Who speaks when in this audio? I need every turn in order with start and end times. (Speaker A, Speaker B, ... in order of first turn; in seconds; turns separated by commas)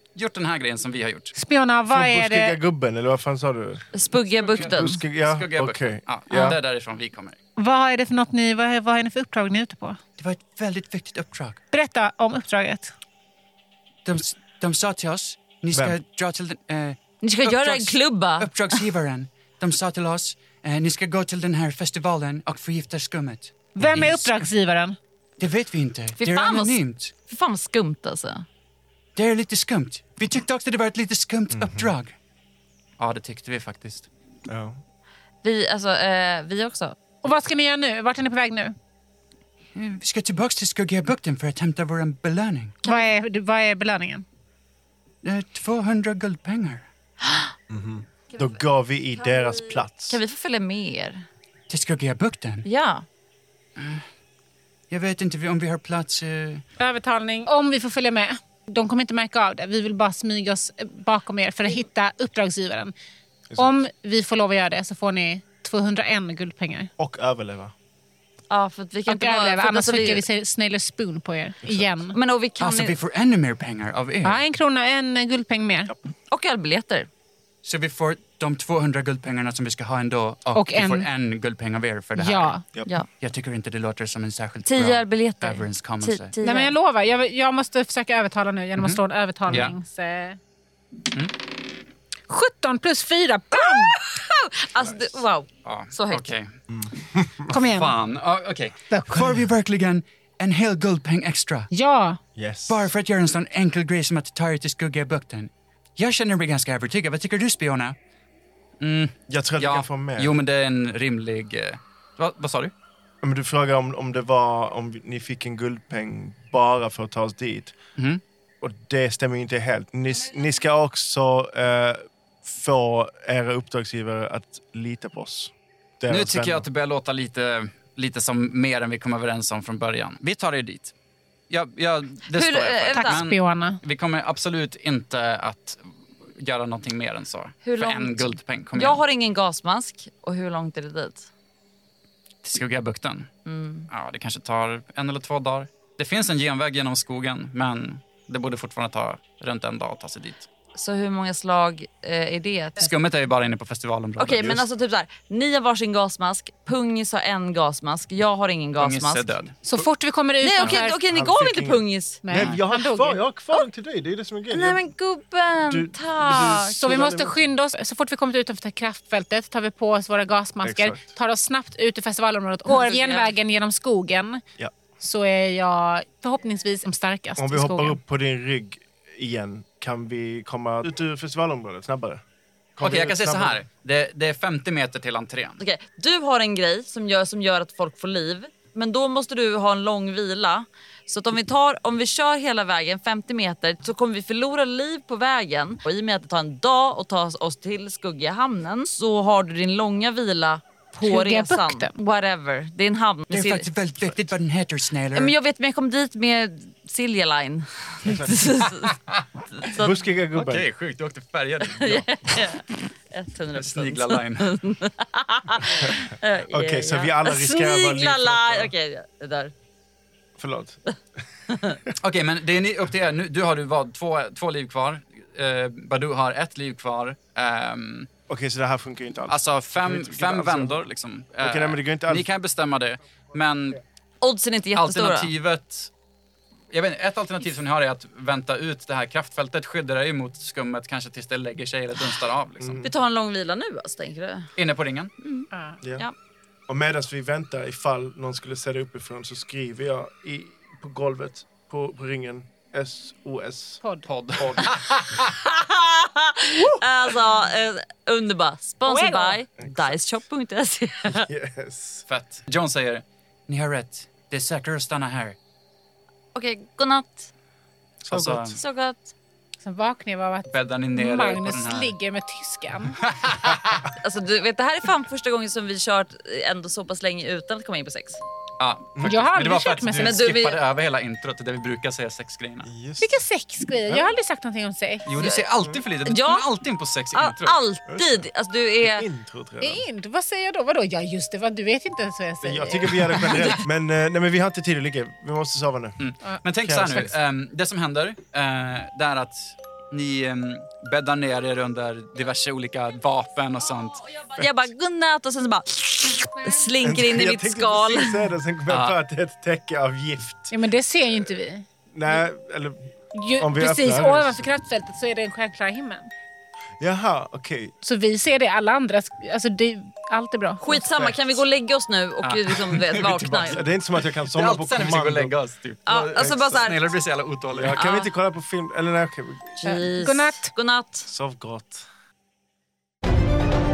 Speaker A: 0.1-1.3, Speaker B: 1.3-2.6, Speaker C: 1.9-3.9, Speaker D: 3.9-5.0, Speaker A: 4.4-7.4, Speaker C: 4.6-6.6, Speaker B: 7.6-10.0, Speaker A: 10.2-11.6, Speaker B: 11.7-12.9, Speaker A: 14.0-24.4, Speaker C: 15.7-16.0, Speaker D: 17.2-18.8, Speaker B: 23.8-25.0, Speaker C: 23.8-24.1, Speaker A: 25.4-27.1, Speaker D: 26.2-28.4, Speaker A: 29.1-32.1, Speaker C: 31.5-31.9, Speaker A: 33.0-34.1, Speaker C: 34.5-34.8, Speaker D: 35.4-37.0, Speaker B: 37.2-38.7, Speaker A: 39.7-42.7, Speaker D: 42.8-43.1, Speaker B: 42.8-44.2, Speaker A: 45.2-46.8, Speaker D: 47.2-47.5, Speaker C: 47.7-50.2, Speaker D: 48.3-48.6, Speaker D: 49.1-51.2, Speaker A: 51.7-52.7, Speaker D: 52.6-53.0, Speaker A: 53.8-54.0, Speaker A: 54.9-56.6, Speaker B: 56.8-62.9, Speaker C: 63.5-63.8, Speaker B: 63.5-66.9, Speaker C: 67.0-67.7, Speaker D: 68.5-70.3, Speaker B: 69.1-72.2, Speaker C: 71.6-72.0, Speaker D: 72.1-72.9, Speaker A: 72.6-74.4, Speaker B: 74.2-75.9, Speaker D: 76.3-77.1, Speaker A: 77.6-82.5, Speaker B: 80.5-81.1, Speaker B: 82.2-82.6, Speaker A: 83.2-86.3, Speaker D: 84.6-86.7, Speaker B: 86.4-90.4, Speaker A: 88.8-89.8, Speaker B: 92.3-94.0, Speaker D: 93.6-96.3, Speaker C: 94.8-95.2, Speaker A: 95.6-96.5, Speaker C: 96.7-97.5, Speaker B: 97.5-98.0, Speaker A: 97.7-101.7, Speaker B: 98.9-99.5, Speaker B: 101.7-102.2, Speaker C: 102.3-102.9, Speaker A: 102.7-108.0, Speaker A: 108.8-112.7, Speaker C: 109.3-110.4, Speaker C: 113.2-117.8, Speaker A: 118.0-118.2, Speaker C: 118.6-126.7, Speaker A: 126.1-130.9, Speaker A: 131.5-135.8, Speaker D: 132.3-133.2, Speaker B: 132.9-133.8, Speaker A: 136.3-139.0, Speaker D: 137.6-141.3, Speaker A: 142.4-143.3, Speaker D: 143.4-143.9, Speaker A: 143.9-150.5, Speaker D: 150.7-152.9, Speaker A: 152.8-154.6, Speaker D: 154.2-159.3, Speaker A: 158.8-159.5, Speaker B: 159.6-161.0, Speaker D: 160.4-162.2, Speaker C: 161.1-164.8, Speaker B: 162.2-163.2, Speaker D: 164.5-166.8, Speaker C: 165.7-167.3, Speaker B: 166.6-174.4, Speaker C: 170.6-171.1, Speaker D: 172.7-173.3, Speaker B: 175.0-178.0, Speaker C: 177.4-182.2, Speaker C: 182.8-183.6, Speaker A: 182.8-185.6, Speaker D: 185.6-203.7, Speaker B: 201.0-201.9, Speaker A: 203.3-205.3, Speaker D: 205.1-209.0, Speaker C: 208.0-208.5, Speaker D: 209.6-209.9, Speaker C: 209.7-210.7, Speaker A: 210.3-212.1, Speaker D: 211.7-219.5, Speaker A: 213.5-214.5, Speaker C: 216.5-218.7, Speaker C: 220.4-220.8, Speaker D: 221.5-221.8, Speaker A: 222.0-228.1, Speaker C: 228.3-230.8, Speaker A: 229.3-233.8, Speaker C: 231.4-232.3, Speaker D: 234.2-235.3, Speaker A: 234.7-235.9, Speaker A: 236.7-242.8, Speaker C: 242.6-242.9, Speaker D: 242.8-244.5, Speaker A: 244.6-245.1, Speaker D: 245.2-246.1, Speaker B: 245.5-245.8, Speaker C: 245.8-246.1, Speaker C: 246.7-253.8, Speaker A: 254.1-255.3, Speaker C: 254.4-254.7, Speaker D: 255.4-261.3, Speaker B: 258.9-259.4, Speaker C: 259.6-260.0, Speaker C: 261.1-262.0, Speaker A: 262.1-265.4, Speaker D: 266.3-267.3, Speaker C: 268.0-268.6, Speaker A: 268.1-268.6, Speaker D: 268.6-269.1, Speaker B: 269.6-273.0, Speaker A: 270.5-271.9, Speaker A: 273.0-273.9, Speaker D: 274.0-278.2, Speaker A: 278.6-282.7, Speaker C: 278.9-279.3, Speaker B: 279.0-280.2, Speaker D: 280.0-280.6, Speaker C: 282.6-283.2, Speaker B: 283.0-285.3, Speaker C: 283.9-284.1, Speaker A: 285.0-287.6, Speaker D: 286.1-286.4, Speaker D: 287.1-289.1, Speaker C: 287.9-288.3, Speaker C: 288.8-289.8, Speaker B: 289.6-293.3, Speaker C: 292.4-297.2, Speaker D: 293.2-293.6, Speaker A: 296.0-304.0, Speaker D: 304.3-308.3, Speaker C: 304.3-304.7, Speaker C: 306.8-310.5, Speaker A: 308.7-309.0, Speaker B: 310.5-311.6, Speaker C: 311.9-314.5, Speaker B: 313.1-316.1, Speaker C: 316.8-317.8, Speaker B: 317.8-320.9, Speaker D: 320.6-323.6, Speaker C: 320.8-321.4, Speaker A: 322.2-323.6, Speaker C: 323.4-325.4, Speaker A: 324.2-327.8, Speaker D: 325.9-326.8, Speaker C: 326.1-326.8, Speaker C: 327.5-329.6, Speaker D: 327.7-328.1, Speaker D: 329.6-331.1, Speaker B: 329.6-330.5, Speaker C: 331.1-331.9